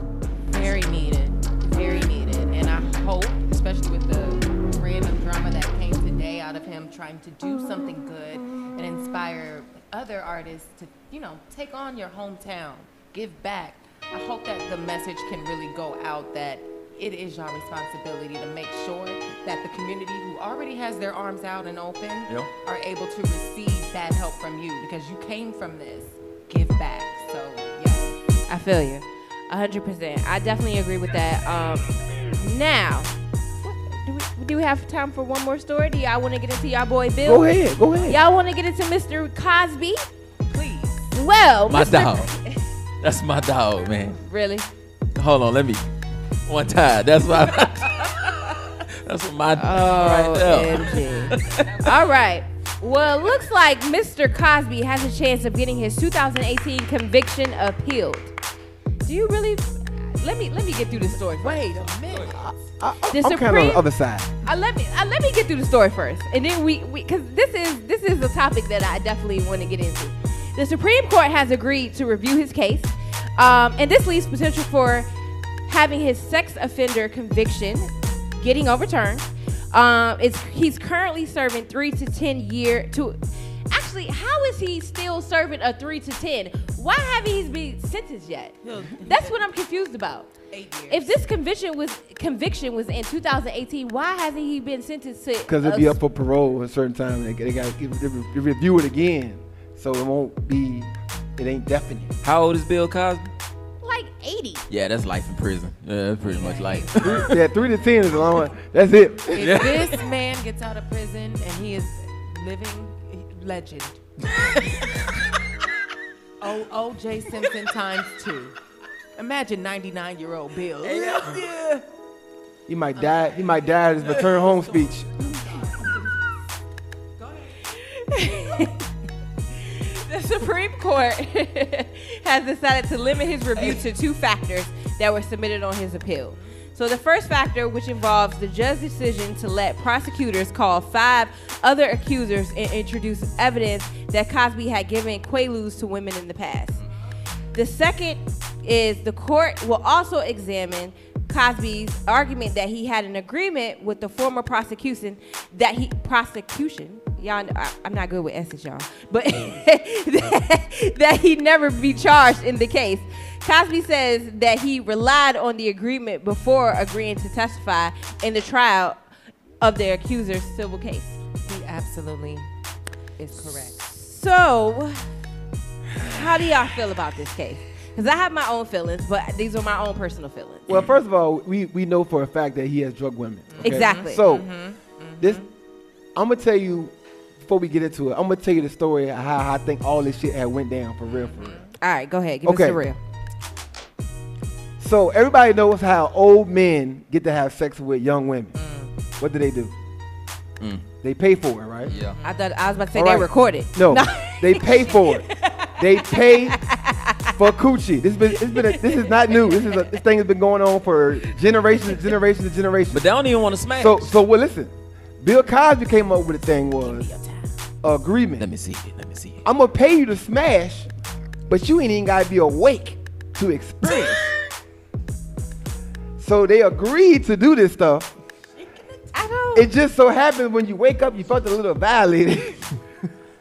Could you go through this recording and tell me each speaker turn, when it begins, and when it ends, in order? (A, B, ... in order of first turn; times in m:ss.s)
0:00.5-0:28.1 A
0:28.5-0:33.1 B
0:33.6-0:40.0 B
0:37.2-0:38.2 C
0:40.4-0:41.1 A
0:41.1-0:42.6 B
0:41.7-0:42.3 D
0:43.0-0:44.2 D
0:44.2-0:44.7 B
0:45.2-0:45.9 D
0:46.5-0:51.8 D
0:47.4-0:48.2 A
0:49.6-0:58.3 B
0:51.0-0:52.0 A
0:59.0-1:01.7 B
1:00.9-1:02.5 A
1:01.7-1:02.4 D
1:02.3-1:04.3 C
1:03.1-1:03.8 B
1:04.4-1:15.1 B
1:15.6-1:23.2 B
1:23.7-1:30.3 B
1:28.6-1:29.3 A
1:30.5-1:31.1 A
1:30.9-1:36.0 B
1:35.5-1:42.1 C
1:42.2-1:43.3 D
1:43.8-1:44.6 B
1:44.7-1:47.4 D
1:46.2-1:47.3 A
1:47.0-1:49.8 C
1:49.3-1:54.0 A
1:49.4-1:50.0 D
1:54.3-1:54.8 D
1:56.4-1:58.6 A
1:59.2-2:01.5 A
2:00.8-2:01.8 D
2:02.7-2:05.1 C
2:02.9-2:06.1 A
2:07.2-2:07.7 A
2:07.7-2:08.8 B
2:09.5-2:26.8 B
2:27.5-2:49.0 B
2:49.6-2:51.2 B
2:51.4-2:52.5 A
2:53.2-2:53.8 A
2:53.5-2:55.0 B
2:55.9-3:00.7 B
3:00.7-3:04.5 C
3:03.5-3:05.5 A
3:03.6-3:04.2 B
3:06.2-3:06.9 C
3:07.4-3:11.6 C
3:11.0-3:11.7 A
3:11.8-3:13.0 B
3:12.4-3:12.8 C
3:14.8-3:18.6 C
3:18.5-3:18.9 A
3:19.2-3:19.7 C
3:20.6-3:20.9 D
3:21.0-3:21.9 C
3:21.8-3:22.2 D
3:21.9-3:22.4 A
3:22.2-3:27.4 B
3:22.9-3:26.6 C
3:27.3-3:33.0 C
3:28.5-3:29.9 B
3:32.9-3:34.1 D
3:33.7-3:37.1 C
3:36.8-3:37.5 B
3:37.8-3:38.5 C
3:38.4-3:39.4 D
3:39.4-3:40.9 C
3:41.5-3:44.3 C
3:43.9-3:44.2 B
3:46.2-3:48.1 C
3:48.6-3:49.0 A
3:49.1-3:49.7 B
3:49.5-3:52.8 C